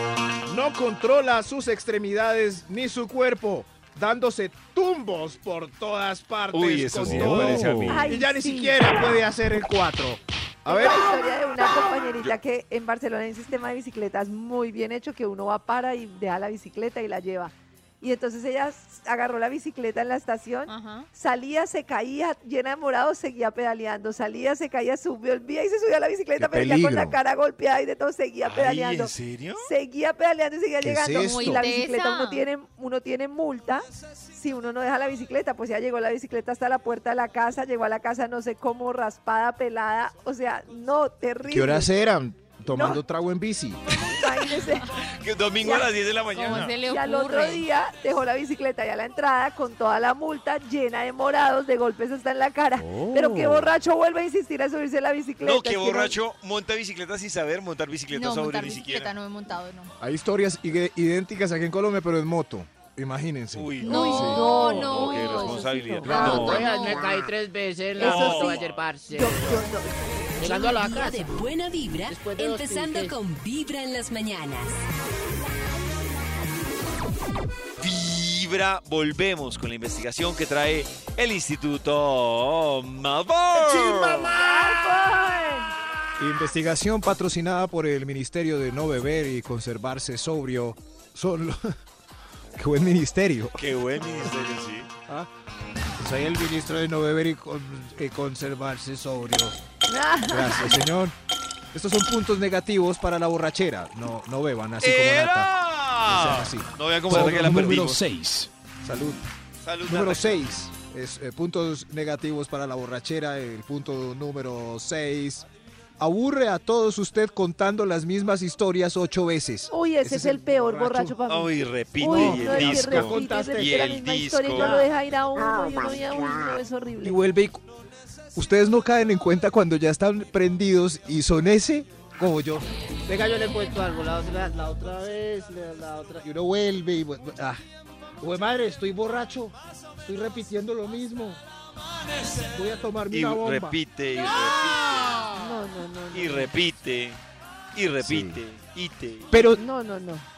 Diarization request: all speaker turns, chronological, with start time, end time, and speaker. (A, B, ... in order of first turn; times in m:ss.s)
0:00.5-0:11.1 A
0:06.5-0:08.1 B
0:07.0-0:08.1 C
0:07.9-0:08.9 D
0:10.7-0:41.9 D
0:20.7-0:21.1 E
0:26.4-0:27.2 A
0:28.4-0:29.7 B
0:30.8-0:31.6 A
0:31.2-0:32.4 E
0:41.4-0:43.8 A
0:42.7-0:43.0 D
0:43.9-0:44.9 D
0:45.0-0:46.7 B
0:45.6-0:45.9 D
0:46.4-0:47.7 E
0:46.5-0:56.2 D
0:52.9-0:53.7 C
0:55.4-0:59.1 B
0:58.1-0:59.9 E
1:00.0-1:04.4 A
1:03.5-1:06.9 B
1:03.8-1:06.9 D
1:03.8-1:07.0 E
1:06.0-1:09.7 F
1:08.0-1:08.8 B
1:08.0-1:08.6 D
1:09.1-1:10.7 D
1:10.4-1:11.4 F
1:10.4-1:14.8 G
1:12.1-1:13.2 F
1:17.8-1:24.4 B
1:23.7-1:25.7 D
1:26.2-1:31.6 A
1:32.6-1:33.6 A
1:33.6-1:34.9 B
1:36.0-1:39.6 A
1:39.9-1:40.8 D
1:40.3-1:41.2 A
1:41.7-1:45.5 A
1:44.8-1:48.0 B
1:46.1-1:48.0 A
1:47.1-1:48.5 C
1:48.8-1:49.2 A
1:49.6-1:50.4 B
1:49.9-1:55.5 A
1:56.0-2:01.2 A
1:59.7-2:07.2 D
2:01.3-2:04.8 B
2:02.0-2:03.9 A
2:04.5-2:04.8 F
2:07.0-2:07.6 A
2:08.4-2:12.7 A
2:13.1-2:16.3 F
2:16.2-2:17.6 A
2:18.2-2:19.5 A
2:18.2-2:19.5 F
2:20.1-2:21.4 F
2:22.5-2:23.8 A
2:23.1-2:25.3 B
2:25.3-2:26.5 D
2:26.1-2:27.2 B
2:27.8-2:29.3 B
2:28.0-2:28.4 A
2:29.3-2:29.6 A
2:29.4-2:30.3 D